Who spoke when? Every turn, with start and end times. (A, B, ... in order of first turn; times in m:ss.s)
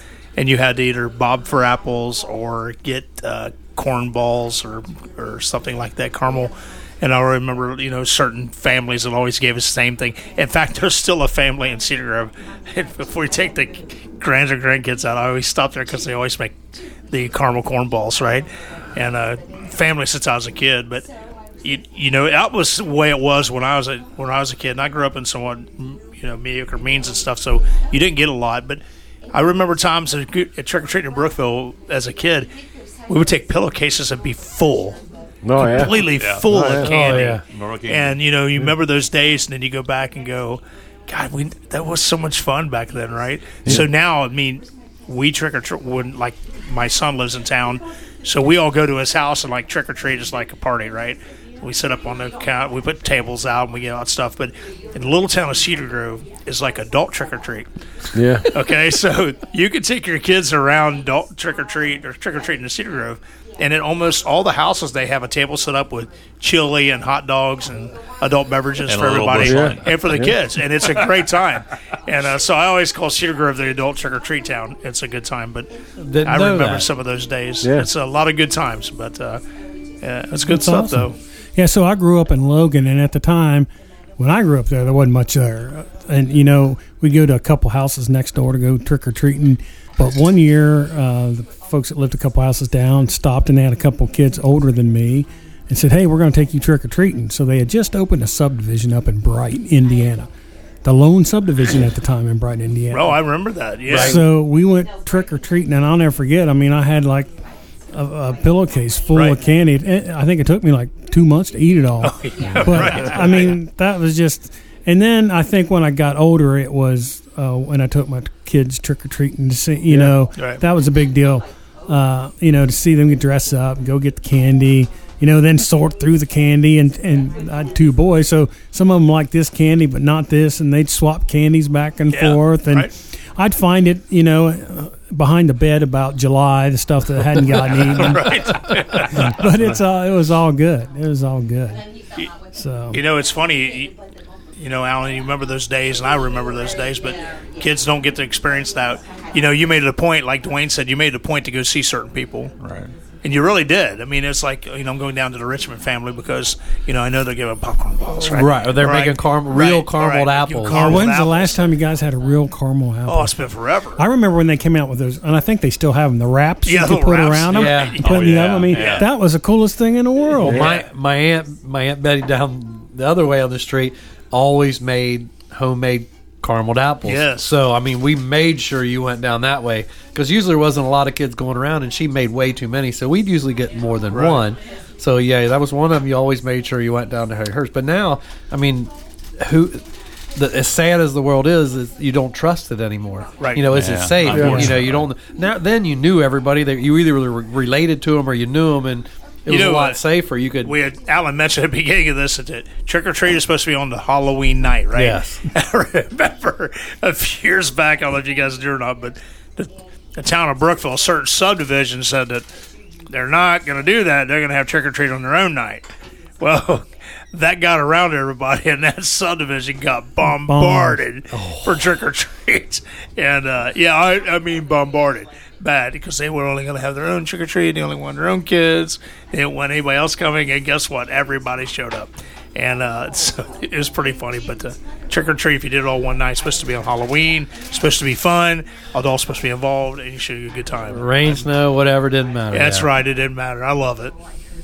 0:00.4-0:16.6 A
0:17.1-0:21.1 A
0:21.6-0:32.5 A
0:33.1-0:35.0 A
0:35.4-0:36.9 B
0:35.6-0:57.7 A
0:36.1-0:38.2 C
0:36.8-0:37.4 D
0:58.1-0:58.5 B
0:58.5-1:15.7 A
1:08.9-1:10.0 C
1:09.4-1:10.3 B
1:16.0-1:16.9 D
1:16.2-1:19.4 A
1:17.6-1:17.9 B
1:20.0-1:21.2 A
1:20.3-1:40.3 E
1:40.8-1:43.2 E
1:42.9-1:44.2 A
1:43.9-1:44.3 D
1:43.9-1:47.3 E
1:47.9-2:21.8 E
1:49.1-1:49.4 A
1:52.0-1:53.6 A
1:59.9-2:00.2 B
2:12.1-2:12.9 A
2:17.8-2:19.4 A
2:22.5-2:23.0 E
2:22.9-2:24.0 A
2:24.6-2:32.5 A
2:32.6-2:32.9 C
2:33.2-2:41.6 A
2:38.2-2:41.1 D
2:40.7-2:43.4 E
2:43.1-2:44.0 A
2:44.0-2:50.6 E
2:46.7-2:49.1 A
2:47.5-2:48.1 D
2:48.0-2:49.1 C
2:50.4-2:50.7 B
2:50.4-3:09.8 D
2:50.5-2:50.9 A
2:57.0-2:57.6 A
3:04.1-3:04.4 A
3:10.4-3:20.8 D
3:13.4-3:13.7 A
3:13.7-3:15.1 C
3:14.3-3:14.6 B
3:19.5-3:20.0 A
3:20.6-3:32.4 A
3:25.0-3:25.4 D
3:33.1-4:01.4 A
3:40.2-3:41.0 E
3:41.3-3:41.8 D
4:00.9-4:02.9 D
4:02.5-4:04.2 A